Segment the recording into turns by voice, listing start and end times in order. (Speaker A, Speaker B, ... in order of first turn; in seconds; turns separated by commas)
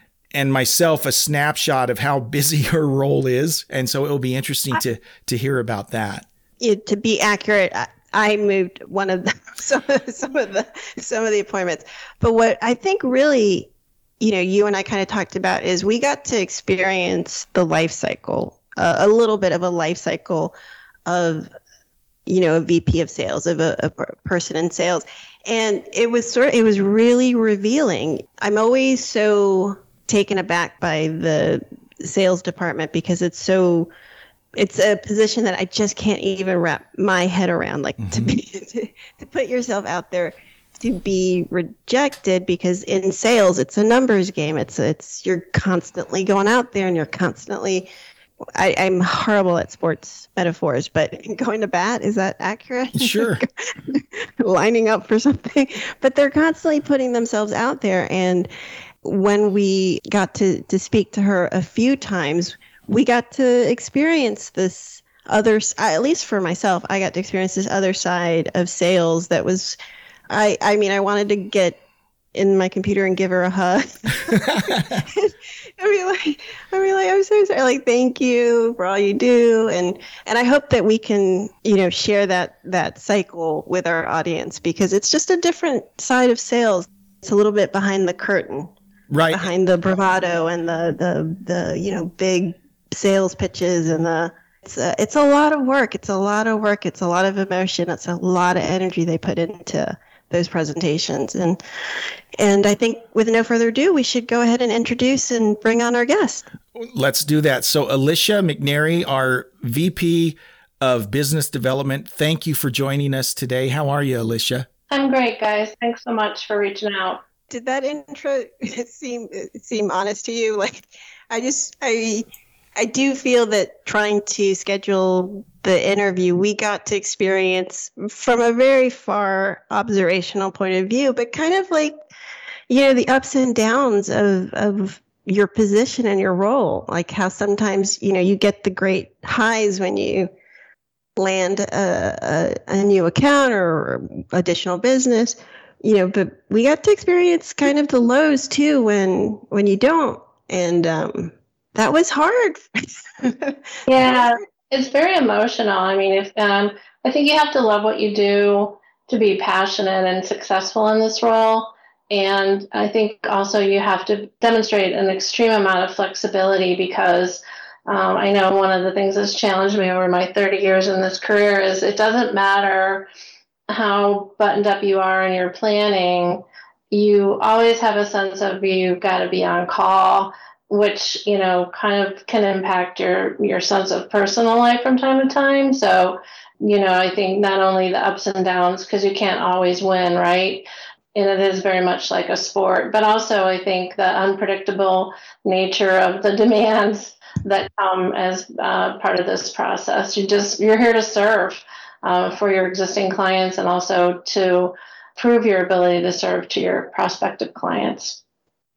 Speaker A: 0.3-6.3, Speaker B: 6.6-20.5, Speaker B: 21.1-21.5, Speaker B: 22.3-33.9, Speaker B: 34.6-47.9, Speaker A: 38.0-38.4, Speaker B: 48.5-58.5, Speaker A: 53.0-53.4, Speaker B: 59.0-69.8, Speaker B: 70.3-71.8, Speaker B: 72.3-88.7, Speaker A: 74.3-75.0, Speaker A: 89.1-89.5, Speaker B: 89.3-106.4, Speaker A: 106.8-114.7, Speaker C: 114.9-117.2, Speaker B: 117.5-122.3, Speaker B: 122.8-132.0, Speaker B: 132.7-140.3, Speaker B: 141.2-154.2, Speaker C: 153.9-173.1, Speaker C: 173.7-208.2